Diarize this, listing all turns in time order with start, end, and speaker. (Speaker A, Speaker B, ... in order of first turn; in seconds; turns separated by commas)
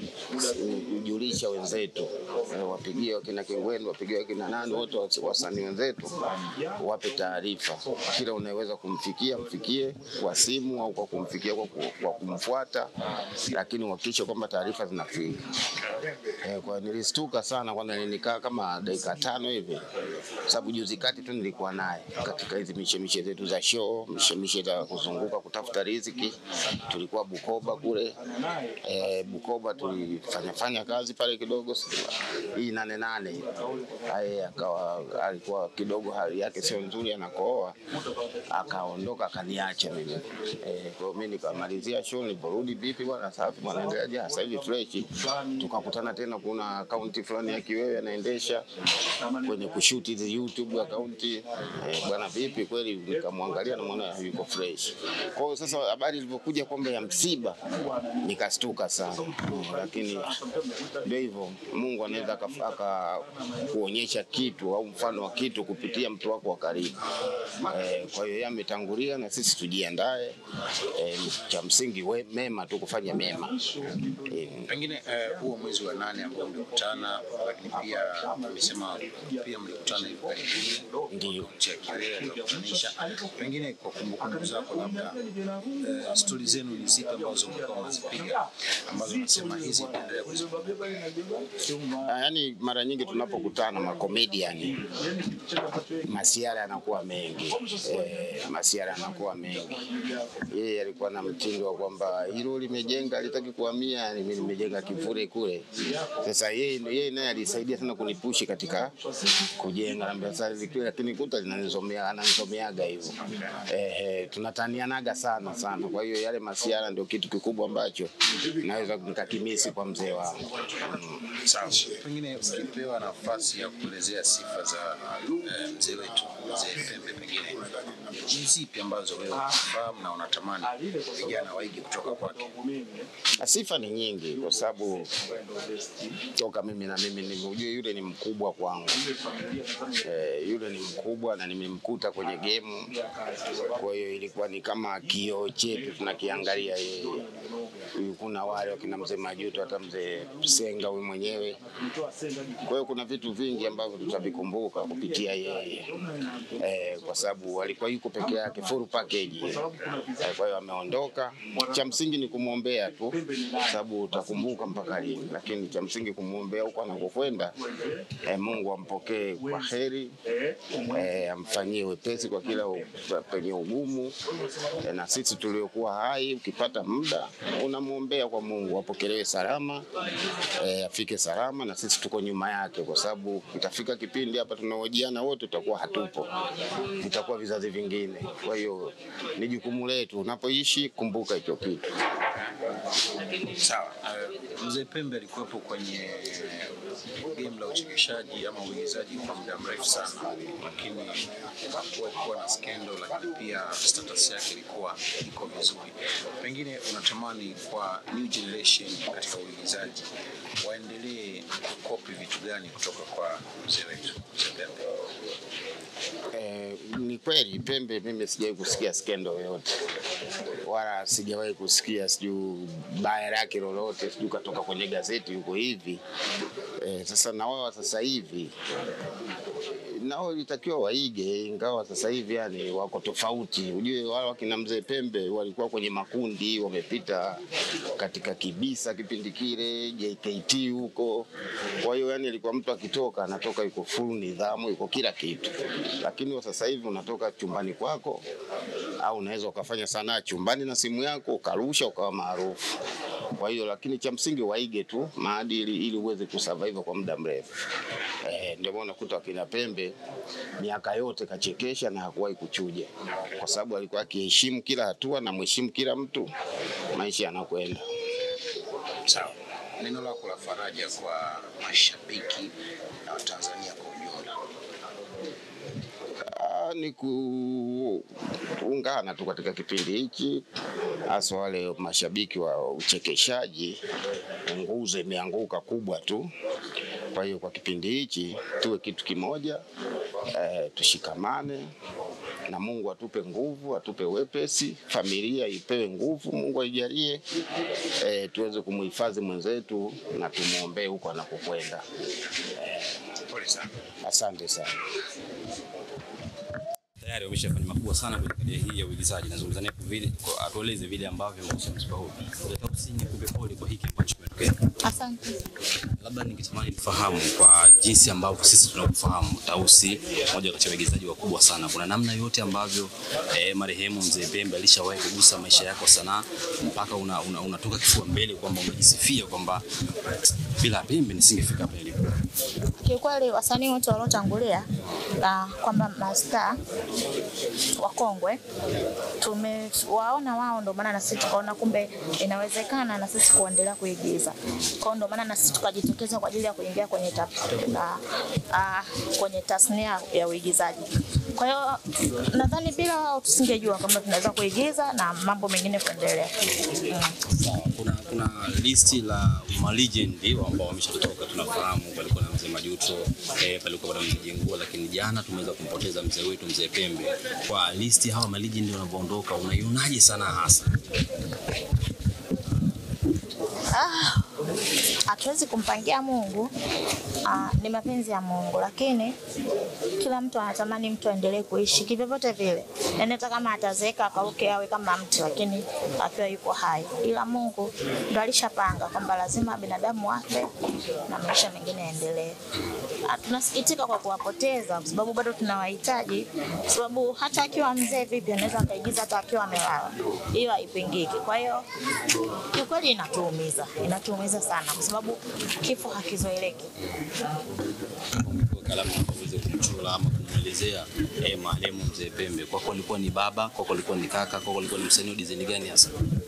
Speaker A: 0.2-12.9, Speaker A: 13.4-15.4, Speaker A: 16.3-19.9, Speaker A: 20.4-37.8, Speaker A: 38.5-48.7, Speaker A: 49.3-74.7, Speaker B: 74.7-91.2, Speaker A: 81.1-81.5, Speaker A: 91.7-94.9, Speaker A: 95.7-99.8, Speaker A: 100.4-121.4, Speaker B: 121.4-132.7, Speaker A: 133.2-135.1, Speaker A: 136.1-139.1, Speaker A: 139.7-142.9, Speaker A: 143.5-147.3, Speaker A: 147.9-151.6, Speaker A: 152.5-167.6, Speaker A: 168.1-170.2, Speaker A: 170.7-179.8, Speaker A: 180.6-186.3, Speaker A: 186.9-191.9, Speaker B: 193.2-214.9, Speaker A: 216.3-219.8, Speaker A: 220.6-226.0, Speaker A: 226.8-228.5, Speaker A: 229.6-241.3, Speaker A: 241.8-248.2, Speaker A: 249.0-252.7, Speaker A: 253.3-257.5, Speaker A: 258.2-259.9, Speaker A: 260.6-266.3, Speaker A: 266.9-267.9, Speaker B: 269.0-274.4, Speaker A: 276.2-280.4, Speaker A: 281.0-283.8, Speaker A: 284.4-286.3, Speaker A: 287.1-289.6, Speaker A: 290.3-291.7, Speaker A: 292.5-297.2, Speaker A: 298.0-301.8, Speaker A: 302.4-303.0, Speaker B: 303.3-303.7, Speaker A: 304.0-304.8, Speaker C: 307.0-314.6, Speaker D: 314.8-315.4, Speaker C: 316.0-332.1, Speaker D: 332.8-334.7, Speaker D: 335.2-336.6, Speaker D: 337.8-338.4, Speaker D: 339.2-357.2, Speaker C: 357.2-370.8, Speaker D: 373.7-374.4, Speaker D: 375.1-376.5, Speaker D: 377.2-379.1, Speaker D: 379.9-392.4, Speaker D: 393.0-401.6, Speaker D: 402.5-406.7, Speaker C: 408.1-415.9